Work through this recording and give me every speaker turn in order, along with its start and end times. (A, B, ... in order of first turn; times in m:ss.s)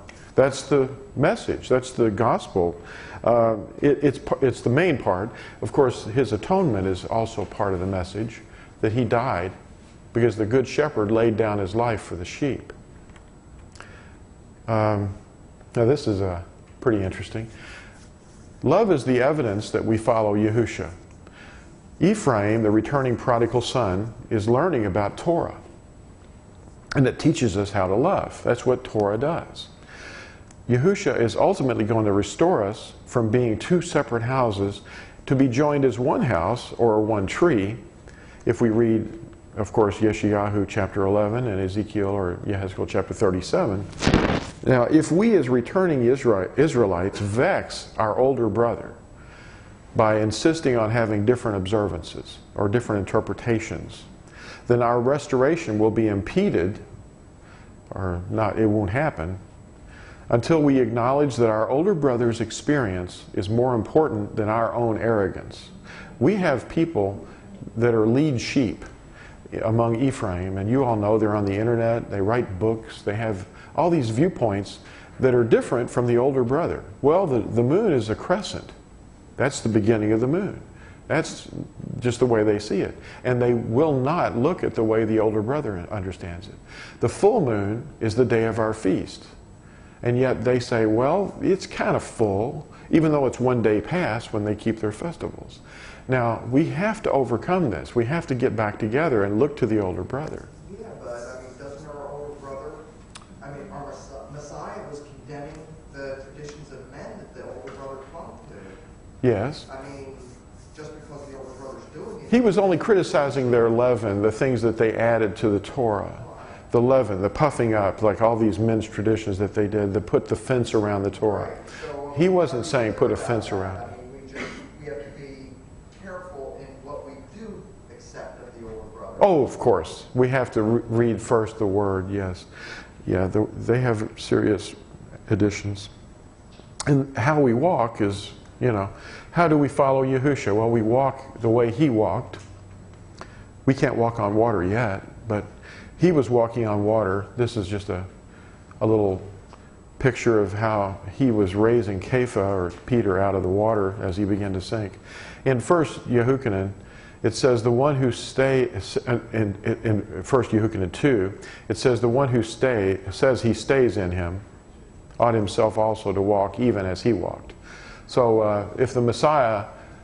0:00.4-0:09.6 A
0:10.1-0:12.7 A
0:14.7-0:15.2 A
0:15.7-0:17.5 A
0:18.6-0:20.9 A
0:22.0-0:25.6 A
0:27.0-0:29.7 A
0:30.7-0:37.8 A
0:38.4-0:49.0 A
0:49.9-0:54.1 A
0:54.7-0:56.8 A
0:57.9-0:59.4 A
1:00.3-1:08.9 A
1:09.5-1:18.7 A
1:19.4-1:29.3 A
1:30.0-1:40.5 A
1:40.6-1:42.8 B
1:43.4-1:48.8 B
1:49.2-1:49.7 A
1:49.7-1:53.4 B
1:52.3-2:01.6 A
2:01.2-2:09.5 B
2:02.1-2:03.8 A
2:09.2-2:12.5 A
2:13.0-2:14.8 A
2:15.3-2:15.9 A
2:16.9-2:22.4 A
2:23.7-2:28.1 A
2:28.8-2:29.3 A
2:30.0-2:44.4 A
2:45.2-2:47.6 A
2:48.1-2:49.7 A